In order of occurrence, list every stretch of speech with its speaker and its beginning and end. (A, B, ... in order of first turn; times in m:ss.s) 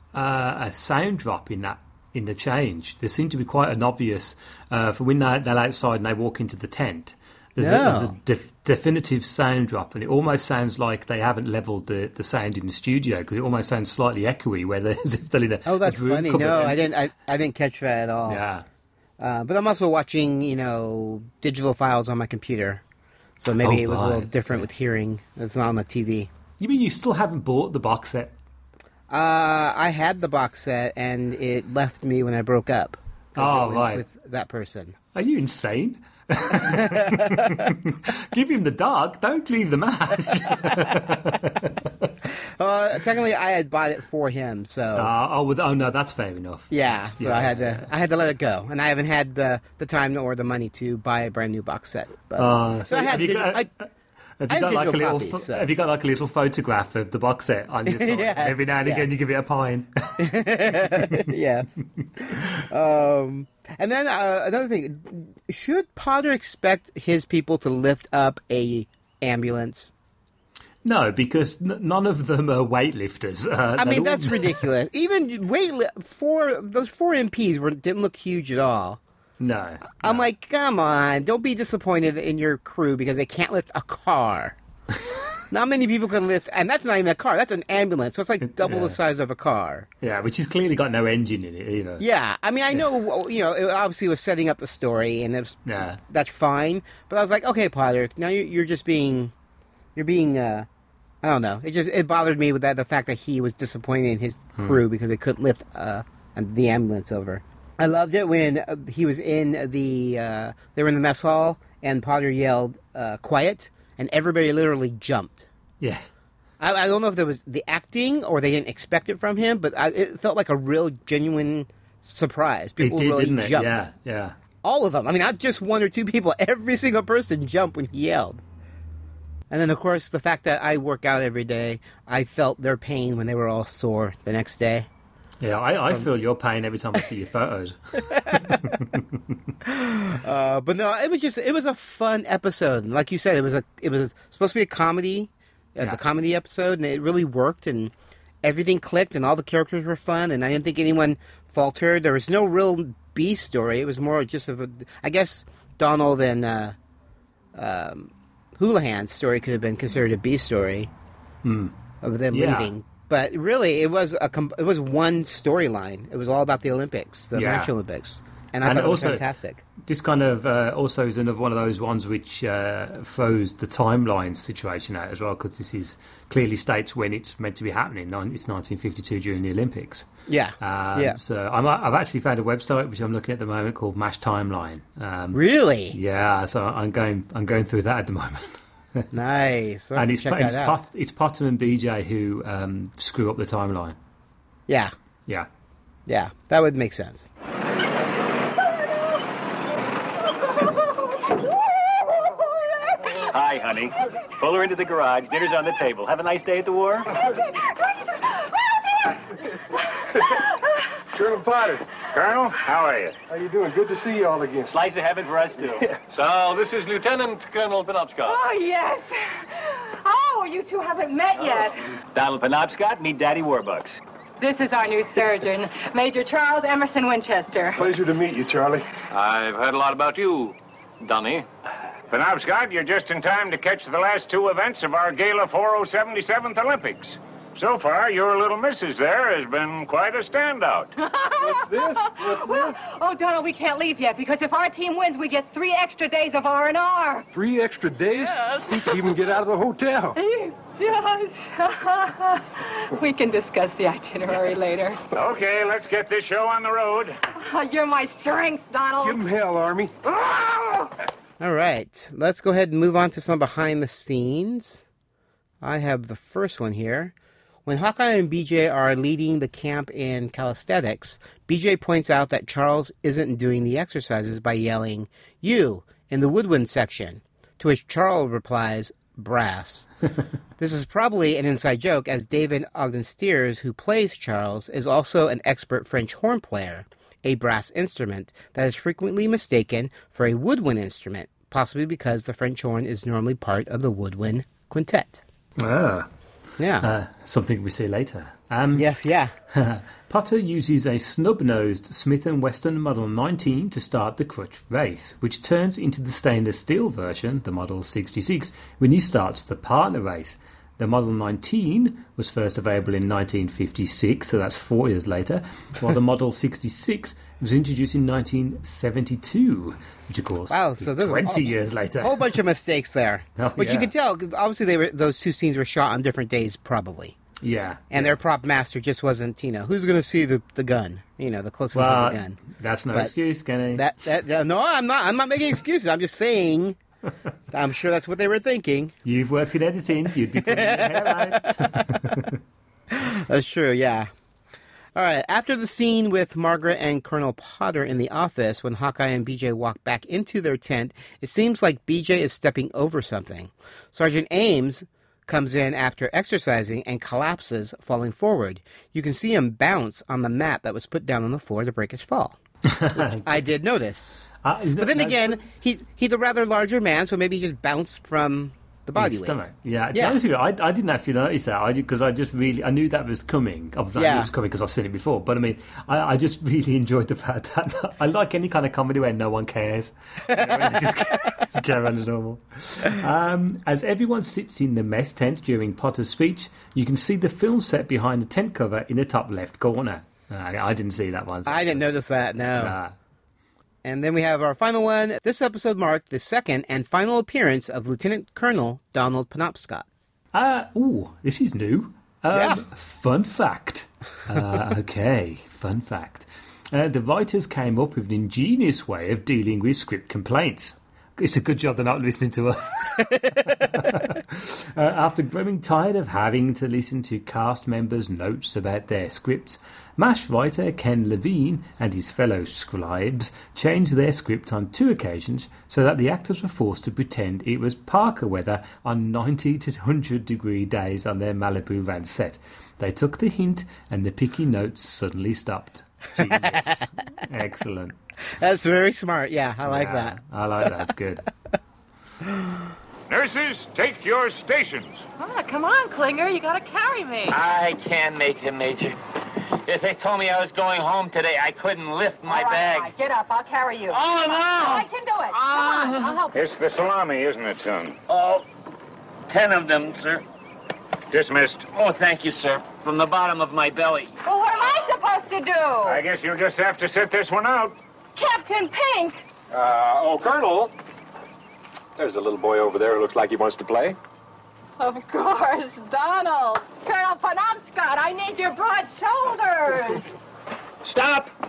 0:00.1-0:16.9 A
0:07.6-0:08.2 B
0:15.6-0:18.4 B
0:18.3-0:18.6 A
0:19.2-0:22.8 B
0:23.4-0:26.3 B
0:23.6-0:24.7 A
0:26.6-0:28.3 A
0:29.1-0:35.0 B
0:33.4-0:34.0 A
0:35.1-0:41.9 A
0:36.5-0:37.6 B
0:42.6-0:45.1 B
0:44.9-0:47.9 A
0:46.7-0:53.7 B
0:52.4-0:53.8 A
0:54.4-1:01.3 A
0:54.5-0:55.7 B
0:57.8-0:59.1 B
1:00.2-1:09.9 B
1:10.8-1:14.6 A
1:13.8-1:19.0 B
1:19.4-1:20.2 A
1:20.0-1:24.6 B
1:25.5-1:29.9 B
1:28.4-1:29.0 A
1:30.0-1:32.0 A
1:32.0-1:39.3 B
1:35.6-1:36.0 A
1:40.0-1:40.7 B
1:41.2-1:55.5 B
1:44.6-1:44.8 A
1:56.6-2:03.8 B
2:02.8-2:04.4 A
2:04.6-2:08.4 B
2:09.5-2:14.9 B
2:15.4-2:19.0 A
2:18.3-2:18.6 B
2:19.6-2:36.8 B
2:37.5-2:40.9 B
2:41.4-2:41.7 A
2:42.0-2:49.6 B
2:42.3-2:42.7 A
2:47.3-2:47.7 A
2:48.6-2:49.2 A
2:49.8-3:00.1 A
3:00.3-3:01.2 B
3:00.6-3:05.4 A
3:05.3-3:06.0 B
3:05.9-3:09.1 A
3:09.1-3:10.8 B
3:10.0-3:14.0 A
3:14.7-3:14.9 B
3:16.1-3:17.3 B
3:18.7-3:19.1 C
3:20.5-3:23.2 C
3:23.2-3:27.1 D
3:27.2-3:29.3 C
3:29.8-3:30.8 C
3:31.1-3:31.9 E
3:32.1-3:33.1 F
3:33.3-3:34.8 E
3:34.7-3:35.8 D
3:36.1-3:36.6 G
3:38.2-3:41.9 C
3:42.1-3:44.0 D
3:44.4-3:47.8 C
3:47.7-3:48.9 E
3:52.1-4:00.9 F
4:01.0-4:07.3 C
4:01.4-4:02.8 E
4:07.3-4:10.2 E
4:10.1-4:15.0 C
4:15.1-4:17.2 F
4:17.3-4:19.2 C
4:19.0-4:19.9 E
4:20.1-4:20.9 C
4:21.4-4:24.8 B
4:25.6-4:27.1 B
4:27.6-4:39.9 B
4:40.6-4:55.2 B
4:55.6-4:56.1 A
4:56.6-4:56.9 B
4:56.8-4:58.9 A
4:58.7-4:59.3 B
4:59.5-5:22.4 A
5:20.5-5:27.2 B
5:23.4-5:23.9 A
5:27.4-5:28.1 A
5:27.9-5:32.4 B
5:31.7-5:33.8 A
5:33.7-5:36.8 B
5:37.5-5:38.9 B
5:39.0-5:42.4 A
5:40.3-5:41.8 B
5:42.9-5:44.1 B
5:44.9-6:02.4 B
6:02.6-6:03.5 A
6:02.9-6:04.2 B
6:04.4-6:05.4 A
6:04.8-6:10.2 B
6:09.0-6:32.0 A
6:14.0-6:14.3 B
6:20.3-6:21.4 B
6:31.4-6:32.8 B
6:32.6-6:32.9 A
6:33.8-6:39.8 B
6:40.3-7:17.9 A
6:42.3-6:42.6 B
7:16.2-7:16.9 B
7:18.4-7:20.2 B
7:19.6-7:21.3 A
7:22.2-7:22.6 B
7:23.1-7:25.0 F
7:25.2-7:27.4 C
7:27.3-7:29.0 H
7:29.6-7:32.9 H
7:32.2-7:36.4 C
7:33.9-7:34.8 H
7:35.4-7:36.1 H
7:36.3-7:38.0 F
7:38.1-7:38.4 H
7:39.3-7:40.2 H
7:41.1-7:41.7 F
7:41.7-7:44.1 H
7:44.2-7:46.0 C
7:45.8-7:47.8 F
7:48.1-7:49.2 C
7:49.5-7:50.7 G
7:52.0-7:54.0 G
7:54.8-8:00.0 C
8:00.8-8:01.3 D